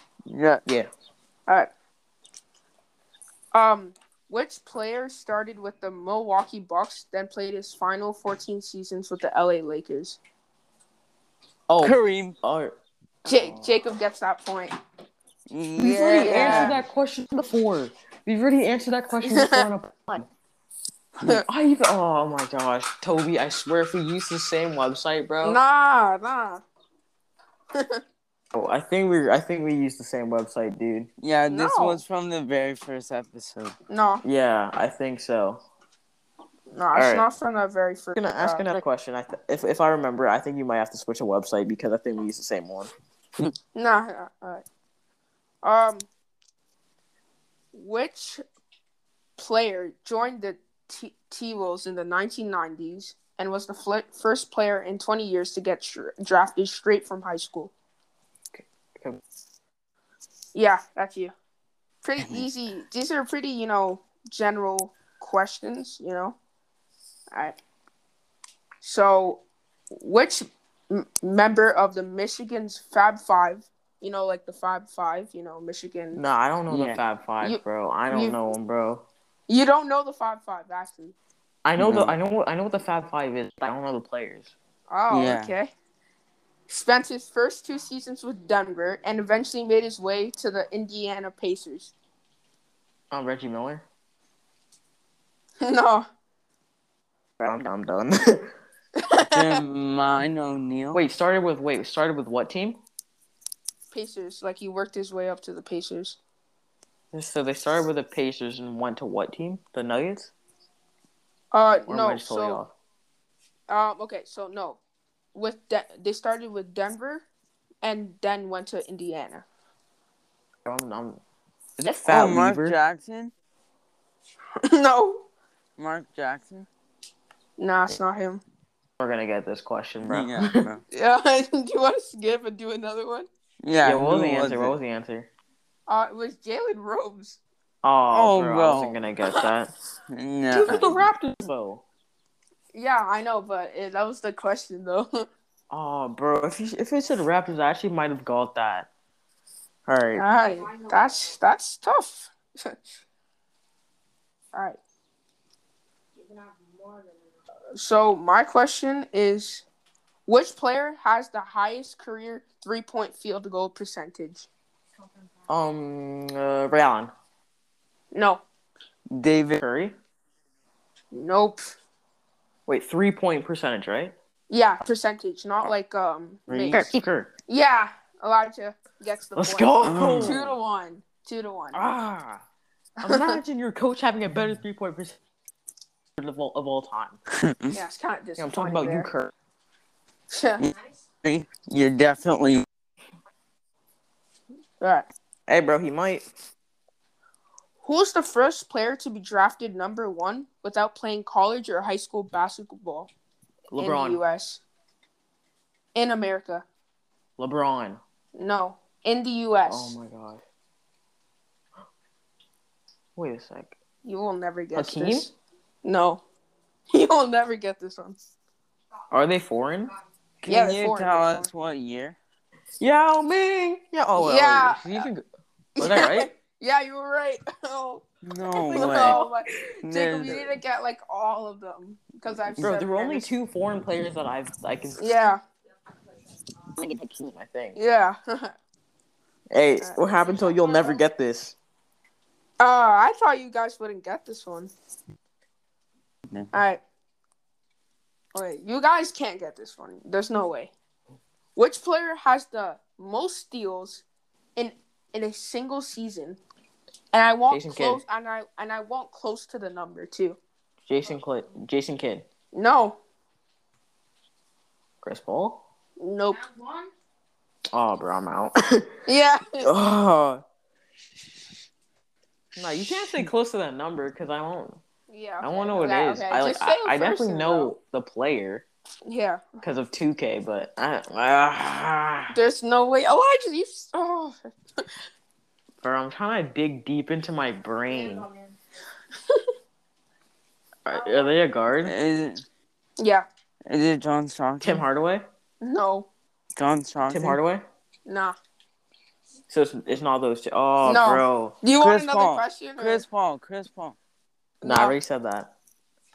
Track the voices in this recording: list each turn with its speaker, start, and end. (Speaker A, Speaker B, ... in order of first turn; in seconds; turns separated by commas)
Speaker A: 0.3-0.6, Speaker B: 3.5-10.2, Speaker C: 11.7-13.7, Speaker A: 11.8-12.3, Speaker B: 13.3-14.8, Speaker A: 15.5-16.8, Speaker C: 15.8-20.3, Speaker B: 16.0-16.8, Speaker B: 19.2-19.7, Speaker C: 21.2-25.6, Speaker B: 25.4-26.6, Speaker B: 27.7-28.0, Speaker C: 28.5-31.1, Speaker A: 31.2-33.8, Speaker B: 31.5-32.0, Speaker B: 33.9-34.2, Speaker C: 34.2-35.6, Speaker B: 36.7-38.7, Speaker C: 36.9-37.2, Speaker C: 38.1-42.9, Speaker B: 43.8-44.6, Speaker B: 45.6-46.1, Speaker B: 47.7-48.4, Speaker B: 49.4-57.7, Speaker C: 58.5-59.2, Speaker B: 60.5-61.3, Speaker B: 62.0-66.4, Speaker B: 68.8-76.2, Speaker C: 76.1-79.1, Speaker A: 76.7-77.0, Speaker B: 77.4-78.4, Speaker B: 79.5-81.1, Speaker C: 81.6-84.5, Speaker A: 81.8-82.2, Speaker B: 84.9-85.7, Speaker A: 85.1-85.5, Speaker B: 86.7-91.9, Speaker C: 93.1-93.8, Speaker B: 95.6-96.1, Speaker C: 97.4-98.5, Speaker B: 99.0-99.6, Speaker A: 99.2-101.0, Speaker C: 100.9-102.8, Speaker B: 103.9-106.2, Speaker C: 107.1-110.3, Speaker B: 111.5-112.6, Speaker C: 111.9-112.7, Speaker B: 113.7-114.8, Speaker B: 115.3-117.2, Speaker B: 117.8-119.5, Speaker C: 120.6-121.2, Speaker C: 121.8-122.8, Speaker A: 122.1-123.3, Speaker B: 124.6-125.2, Speaker A: 125.8-126.7, Speaker B: 127.6-128.4, Speaker C: 129.0-130.6, Speaker A: 130.1-130.8, Speaker B: 130.9-133.3, Speaker A: 133.6-134.8, Speaker C: 133.8-135.3, Speaker B: 135.9-137.4, Speaker C: 137.8-139.7, Speaker A: 138.1-139.0, Speaker A: 140.1-141.0, Speaker C: 140.5-141.8, Speaker B: 140.7-141.0, Speaker B: 142.7-145.3, Speaker C: 145.7-148.9, Speaker C: 149.9-150.3, Speaker B: 150.1-152.8, Speaker B: 154.5-154.8, Speaker B: 157.8-159.6, Speaker B: 160.3-164.5, Speaker C: 165.5-167.1, Speaker B: 168.1-168.4, Speaker A: 169.1-169.6, Speaker C: 169.6-169.9, Speaker B: 171.1-171.7, Speaker C: 172.7-174.1, Speaker B: 174.5-176.8, Speaker A: 176.5-176.8, Speaker C: 176.7-177.3, Speaker B: 177.5-181.8, Speaker C: 179.4-180.5, Speaker A: 179.8-180.4, Speaker C: 181.7-182.4, Speaker B: 183.0-183.4, Speaker C: 183.0-185.2, Speaker C: 186.2-187.2, Speaker A: 187.4-187.8, Speaker B: 187.7-189.1, Speaker C: 188.4-189.3, Speaker B: 190.3-190.7, Speaker A: 190.6-192.7, Speaker B: 194.8-195.1, Speaker C: 195.5-196.3, Speaker B: 197.8-203.1, Speaker C: 203.7-204.2, Speaker B: 203.8-204.6, Speaker B: 205.9-206.6, Speaker C: 207.4-208.0, Speaker B: 208.3-209.9, Speaker C: 209.7-210.4, Speaker C: 213.2-213.8, Speaker B: 214.0-216.2, Speaker C: 214.7-215.3, Speaker B: 216.9-218.3, Speaker C: 219.1-219.9, Speaker A: 220.4-222.2, Speaker B: 220.5-221.5, Speaker C: 222.8-225.2, Speaker B: 224.2-225.1, Speaker C: 225.8-226.3, Speaker B: 225.8-233.3, Speaker A: 228.2-229.2, Speaker C: 228.7-229.3, Speaker A: 229.8-230.6, Speaker C: 232.6-235.0, Speaker B: 235.0-235.4, Speaker C: 236.8-237.8, Speaker B: 237.8-238.5, Speaker C: 239.5-241.6, Speaker B: 242.6-244.7, Speaker B: 246.5-246.8, Speaker B: 248.3-250.7, Speaker B: 251.6-254.0, Speaker B: 254.6-256.4, Speaker B: 257.1-260.4, Speaker C: 257.5-258.0, Speaker C: 260.9-262.2, Speaker B: 262.5-263.0, Speaker C: 265.0-265.6, Speaker B: 266.0-266.5, Speaker C: 267.7-268.9, Speaker B: 269.1-269.7, Speaker C: 269.6-270.4, Speaker C: 272.5-274.8, Speaker B: 275.1-277.7, Speaker C: 275.4-278.6, Speaker B: 279.1-279.6, Speaker C: 279.6-282.4, Speaker B: 282.3-284.9, Speaker C: 285.8-288.3, Speaker C: 290.9-291.9, Speaker A: 291.8-292.4, Speaker B: 293.0-293.3, Speaker A: 293.6-294.8, Speaker C: 294.6-295.2, Speaker B: 295.6-296.1, Speaker A: 296.6-297.4, Speaker C: 297.1-297.6, Speaker B: 298.1-298.4, Speaker C: 299.5-301.6, Speaker B: 300.8-303.0, Speaker A: 301.8-303.9, Speaker B: 304.6-304.9, Speaker C: 304.6-305.5